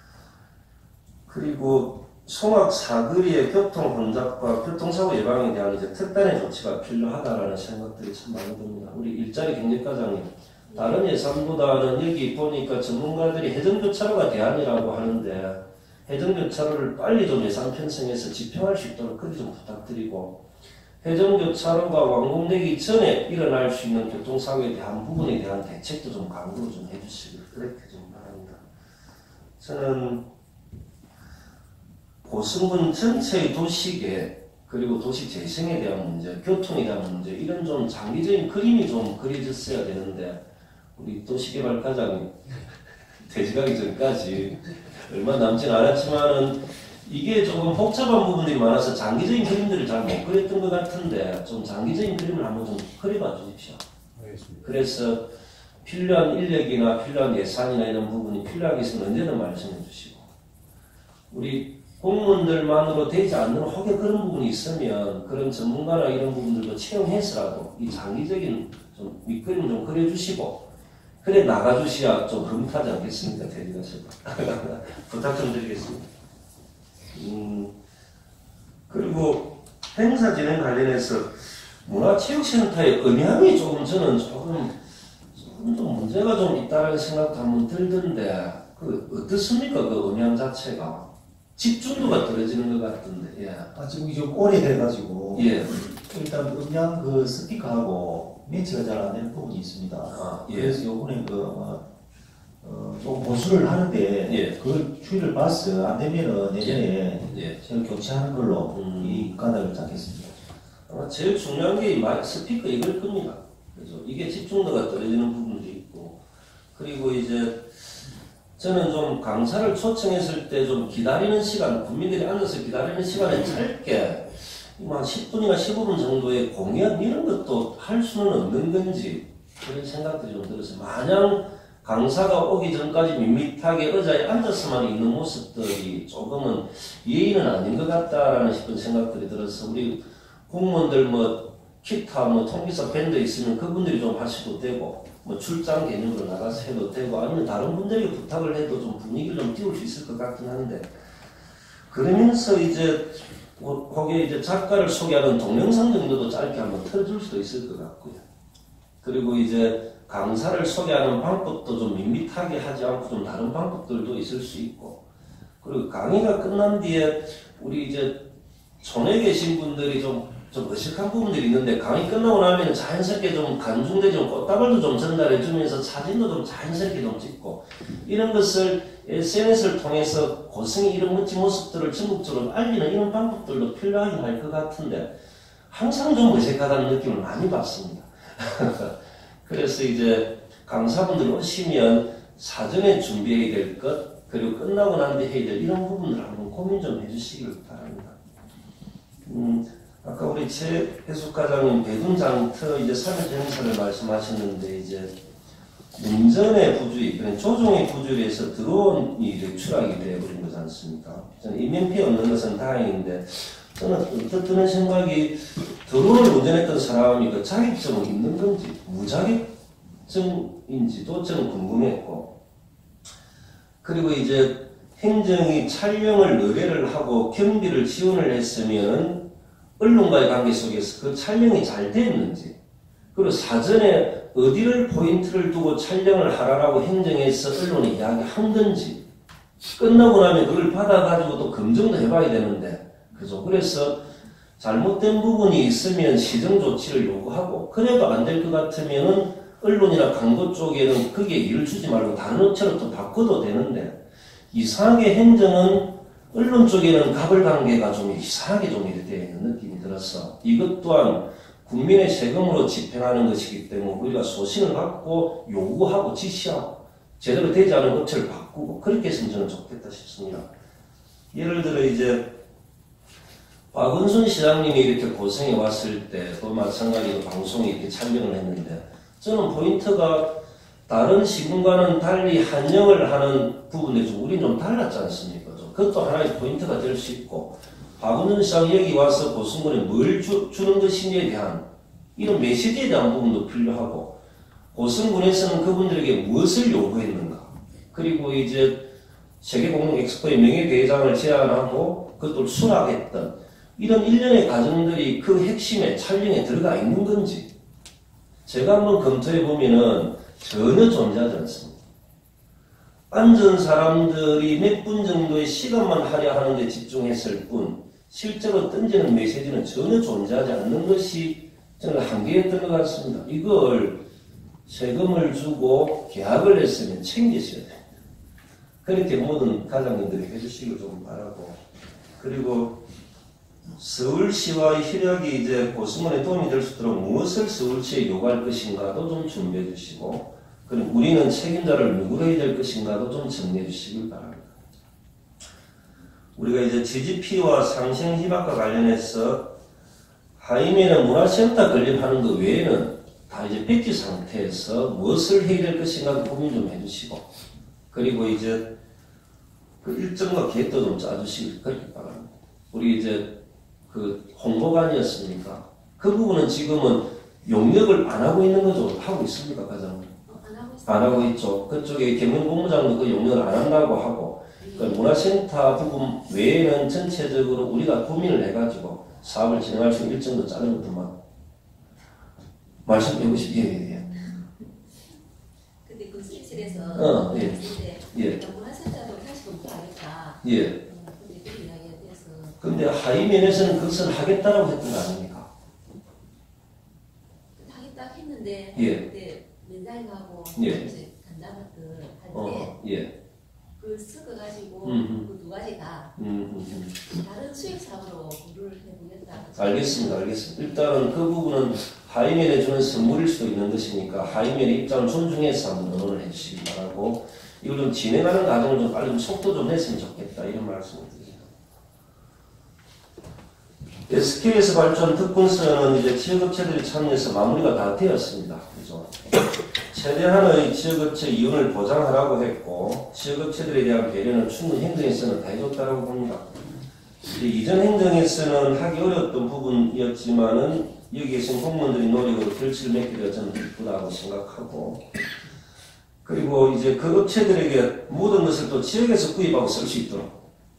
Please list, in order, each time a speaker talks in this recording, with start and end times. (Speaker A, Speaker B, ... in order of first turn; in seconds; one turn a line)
Speaker A: 1.3-20.4
Speaker A: 21.0-28.6
Speaker A: 29.6-30.2
Speaker A: 32.2-40.4
Speaker A: 41.0-42.5
Speaker A: 43.2-53.8
Speaker A: 54.6-55.3
Speaker A: 55.8-60.3
Speaker A: 61.3-70.7
Speaker A: 71.2-76.1
Speaker A: 77.1-77.7
Speaker A: 78.9-84.8
Speaker A: 85.3-93.7
Speaker B: 93.7-101.8
Speaker A: 95.3-95.8
Speaker A: 100.1-100.8
Speaker B: 102.6-110.3
Speaker A: 104.2-104.5
Speaker A: 106.6-107.6
Speaker A: 108.7-109.3
Speaker A: 110.9-116.2
Speaker A: 116.7-117.8
Speaker A: 118.6-150.9
Speaker A: 151.9-158.2
Speaker A: 159.0-165.0
Speaker A: 165.6-168.2
Speaker A: 168.8-185.1
Speaker A: 185.7-198.2
Speaker A: 199.2-205.1
Speaker A: 205.9-219.5
Speaker A: 220.1-222.3
Speaker A: 223.8-229.2
Speaker A: 229.8-232.6
Speaker A: 233.1-239.0
Speaker A: 239.8-244.0
Speaker A: 244.6-254.0
Speaker A: 254.5-270.5
Speaker A: 271.3-272.4
Speaker A: 273.7-280.3
Speaker A: 280.9-294.2
Speaker A: 294.7-298.9
Speaker A: 299.4-307.5
Speaker A: 308.4-311.8
Speaker A: 313.1-324.0
Speaker A: 324.6-327.8
Speaker A: 328.8-331.6
Speaker A: 332.2-332.8
Speaker A: 333.8-344.5
Speaker A: 346.4-349.5
Speaker A: 350.4-357.3
Speaker A: 357.9-358.7
Speaker A: 359.8-363.3
Speaker A: 363.9-370.1
Speaker C: 370.3-371.4
Speaker A: 370.9-381.1
Speaker C: 374.6-375.1
Speaker A: 382.8-384.1
Speaker C: 385.8-392.6
Speaker A: 386.9-388.4
Speaker A: 390.4-390.8
Speaker A: 392.6-395.5
Speaker C: 397.6-402.8
Speaker A: 398.7-399.1
Speaker A: 400.5-400.9
Speaker A: 402.3-403.1
Speaker C: 403.8-406.1
Speaker A: 404.8-405.2
Speaker A: 406.1-407.0
Speaker C: 407.1-410.1
Speaker A: 409.6-421.4
Speaker A: 424.1-429.1
Speaker A: 429.9-436.6
Speaker A: 437.3-445.0
Speaker A: 446.2-450.3